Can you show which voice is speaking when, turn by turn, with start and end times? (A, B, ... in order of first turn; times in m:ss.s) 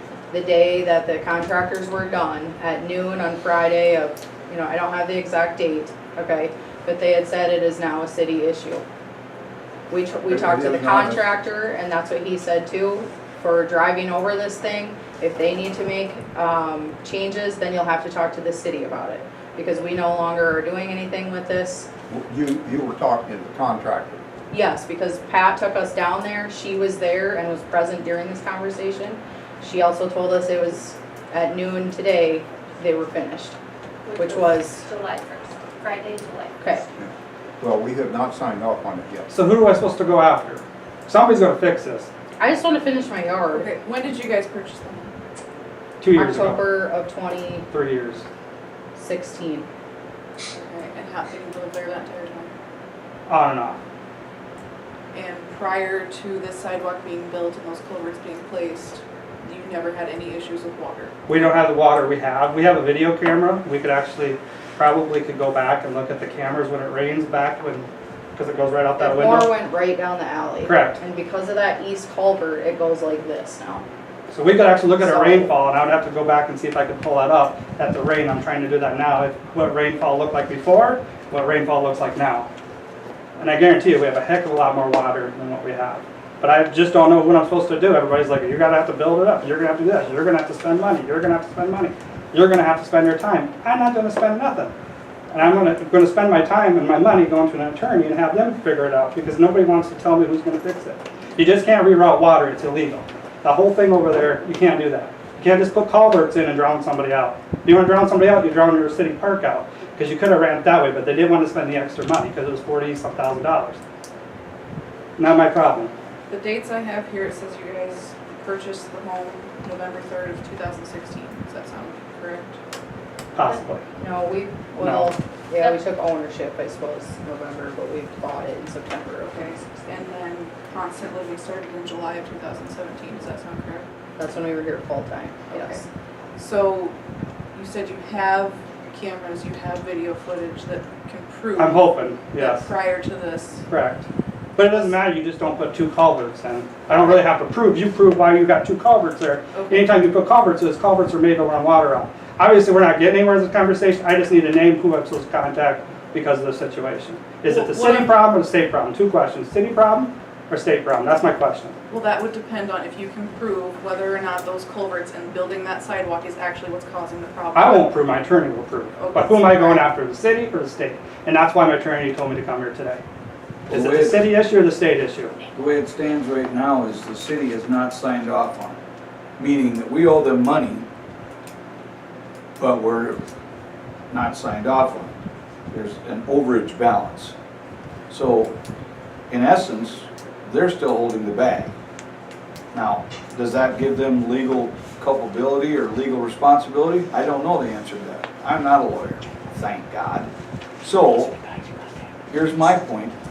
0:00.3-0:08.8 A
0:09.9-0:21.9 A
0:10.2-0:11.4 B
0:22.1-0:24.2 B
0:24.5-0:33.6 A
0:34.1-0:36.6 C
0:34.2-0:34.9 A
0:37.0-0:39.3 B
0:39.3-0:42.1 D
0:42.4-0:43.7 A
0:43.5-0:45.1 E
0:46.0-0:46.6 D
0:46.1-0:47.7 A
0:47.7-0:48.2 D
0:49.0-0:49.7 A
0:50.5-0:52.5 E
0:53.3-0:53.8 D
0:55.1-1:01.1 E
1:01.3-1:09.5 D
1:09.0-1:13.8 A
1:10.6-1:11.0 D
1:14.3-1:22.5 D
1:15.0-1:15.5 A
1:23.4-1:34.7 D
1:35.3-1:53.8 D
1:55.2-1:55.9 D
1:56.3-2:02.6 E
2:03.4-2:03.8 D
2:03.9-2:09.7 A
2:04.8-2:05.1 D
2:09.3-2:13.9 E
2:14.2-2:15.8 A
2:15.5-2:15.8 E
2:16.4-2:17.0 E
2:17.5-2:21.8 E
2:21.6-2:22.7 D
2:22.4-2:23.7 E
2:23.7-2:41.8 D
2:29.6-2:29.9 E
2:37.5-2:38.1 E
2:41.9-2:48.0 E
2:47.5-2:53.0 D
2:49.0-2:49.9 E
2:53.7-2:54.2 F
2:53.7-2:55.4 D
2:55.6-2:58.8 F
2:59.4-3:00.9 F
3:02.6-3:03.2 F
3:04.1-3:05.2 F
3:05.7-3:07.3 F
3:08.1-3:08.6 F
3:09.3-3:11.7 F
3:12.7-3:20.3 F
3:20.8-3:21.4 F
3:22.3-3:23.2 F